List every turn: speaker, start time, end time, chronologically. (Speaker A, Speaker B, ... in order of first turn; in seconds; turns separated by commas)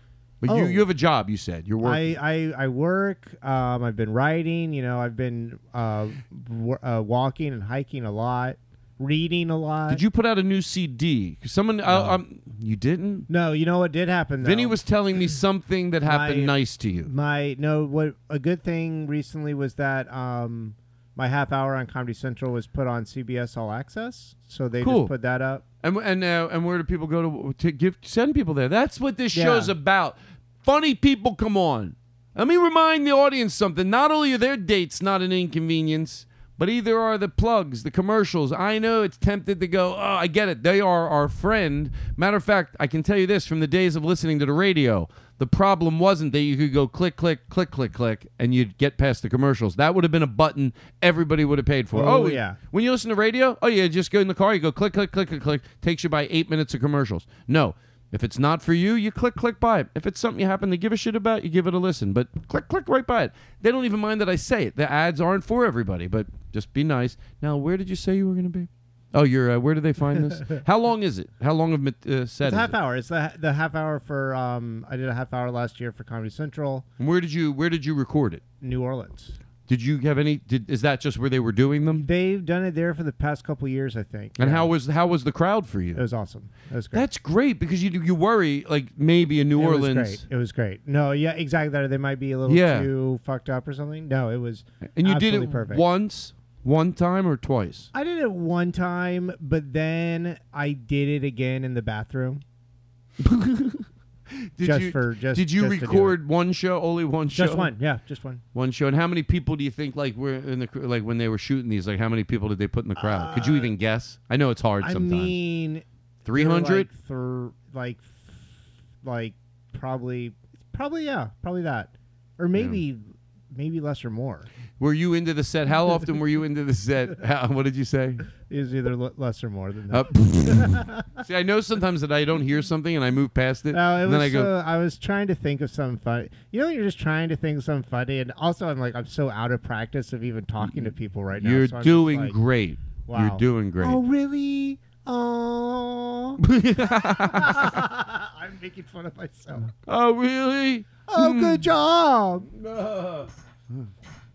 Speaker A: 0.4-2.1, Speaker B: 0.5-0.9, Speaker B: 1.8-10.0, Speaker A: 9.9-13.3, Speaker B: 11.9-12.2, Speaker B: 13.3-14.8, Speaker A: 14.4-17.1, Speaker B: 16.1-25.6, Speaker A: 24.8-25.1, Speaker A: 25.8-72.7, Speaker B: 29.3-29.7, Speaker B: 51.9-52.6, Speaker B: 72.4-76.9, Speaker A: 77.0-78.4, Speaker B: 78.6-79.4, Speaker A: 79.7-82.1, Speaker B: 81.9-84.7, Speaker A: 84.4-86.0, Speaker B: 86.0-87.1, Speaker A: 86.9-90.2, Speaker B: 89.5-95.8, Speaker A: 92.5-92.9, Speaker A: 95.0-97.9, Speaker B: 97.9-102.4, Speaker A: 103.2-103.9, Speaker A: 104.6-107.7, Speaker B: 104.6-106.2, Speaker B: 107.3-108.4, Speaker A: 108.5-115.3, Speaker B: 113.0-113.7, Speaker B: 114.8-118.5, Speaker A: 116.2-116.9, Speaker B: 119.0-124.5, Speaker A: 122.6-122.8, Speaker A: 124.8-128.3, Speaker B: 128.4-131.1, Speaker A: 129.9-134.5, Speaker B: 133.7-142.4, Speaker A: 140.6-144.0, Speaker B: 143.1-146.4, Speaker A: 146.4-147.8, Speaker B: 147.0-149.7, Speaker A: 149.9-151.7, Speaker B: 151.1-152.5, Speaker A: 152.6-153.9